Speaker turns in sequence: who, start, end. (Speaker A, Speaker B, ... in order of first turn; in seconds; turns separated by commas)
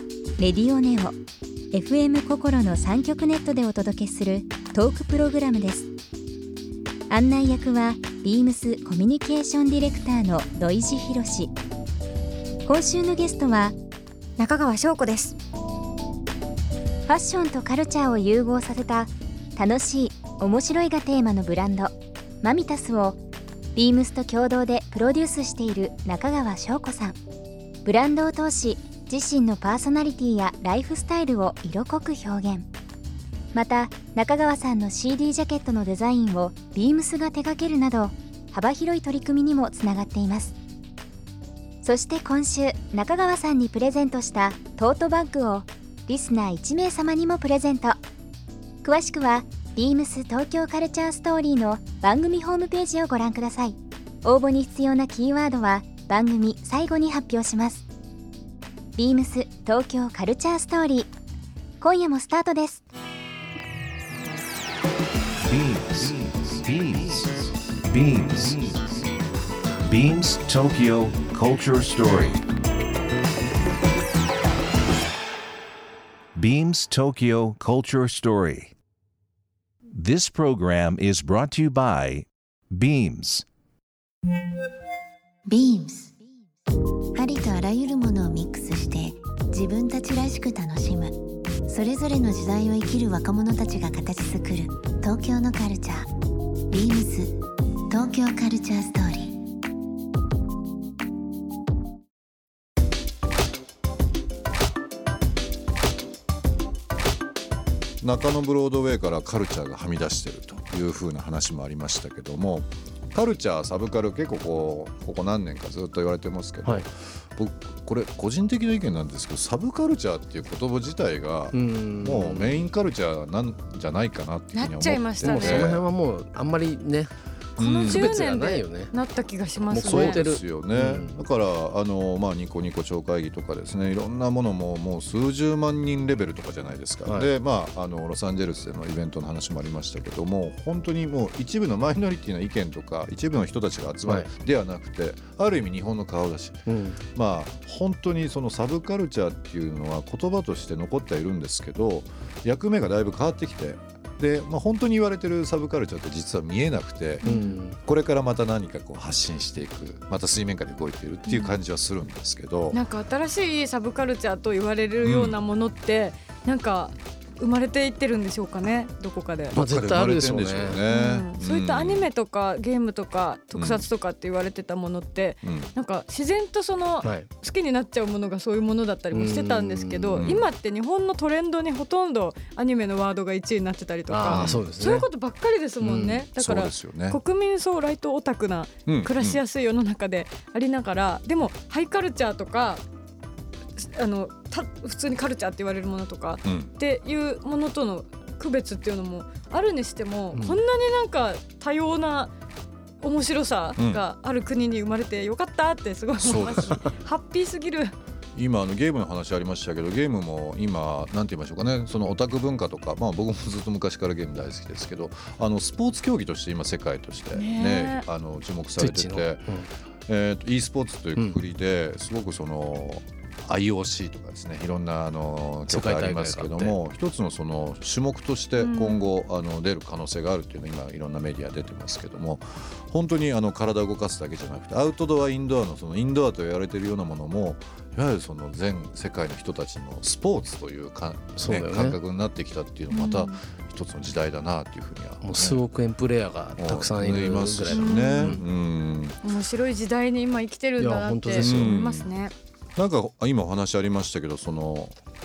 Speaker A: 0.4-1.1, Speaker A: 1.7-5.9, Speaker A: 7.1-11.5, Speaker A: 12.7-13.8, Speaker B: 14.4-15.4, Speaker A: 17.1-21.9, Speaker A: 22.4-23.2, Speaker A: 23.8-27.2, Speaker A: 27.9-32.7, Speaker A: 33.5-40.5, Speaker A: 41.8-48.0, Speaker A: 48.8-57.9, Speaker A: 59.0-61.1, Speaker A: 61.8-62.8, Speaker C: 65.4-69.0, Speaker C: 69.8-72.4, Speaker C: 76.3-78.7, Speaker C: 79.9-83.5, Speaker D: 85.5-86.1, Speaker D: 87.2-91.1, Speaker D: 91.7-96.1, Speaker D: 96.7-97.4, Speaker D: 97.9-99.4, Speaker E: 108.0-125.8, Speaker F: 121.5-122.7, Speaker B: 124.5-125.7, Speaker F: 125.2-127.1, Speaker E: 127.6-128.2, Speaker B: 127.6-130.2, Speaker F: 127.9-128.9, Speaker F: 129.7-131.2, Speaker E: 129.7-157.3, Speaker F: 137.1-137.3, Speaker F: 144.1-144.3, Speaker F: 146.7-147.0, Speaker B: 157.2-157.6, Speaker F: 157.2-157.8, Speaker E: 157.8-162.8, Speaker B: 161.3-161.6, Speaker B: 162.7-169.6, Speaker E: 165.0-165.4, Speaker F: 169.5-170.8, Speaker E: 169.5-172.1, Speaker B: 170.9-192.8, Speaker E: 173.5-173.9, Speaker E: 175.4-175.7, Speaker F: 177.0-177.3, Speaker F: 179.1-180.4, Speaker E: 180.2-180.5, Speaker F: 184.1-185.1, Speaker E: 184.3-184.7, Speaker F: 185.8-186.3, Speaker E: 186.3-187.2, Speaker E: 188.9-189.4, Speaker B: 193.8-202.3, Speaker E: 196.4-196.7, Speaker F: 200.3-200.6, Speaker B: 203.0-207.9, Speaker E: 203.8-204.0, Speaker E: 206.2-206.8, Speaker E: 208.3-219.5, Speaker B: 217.3-218.1, Speaker F: 218.8-219.7, Speaker E: 220.1-245.6, Speaker F: 225.7-226.8, Speaker B: 228.6-229.1, Speaker F: 241.4-242.0, Speaker B: 242.9-243.4, Speaker F: 245.2-248.4, Speaker E: 246.6-249.2, Speaker B: 247.7-248.4, Speaker B: 249.2-252.3, Speaker F: 250.8-251.8, Speaker E: 251.4-252.1, Speaker E: 252.8-254.9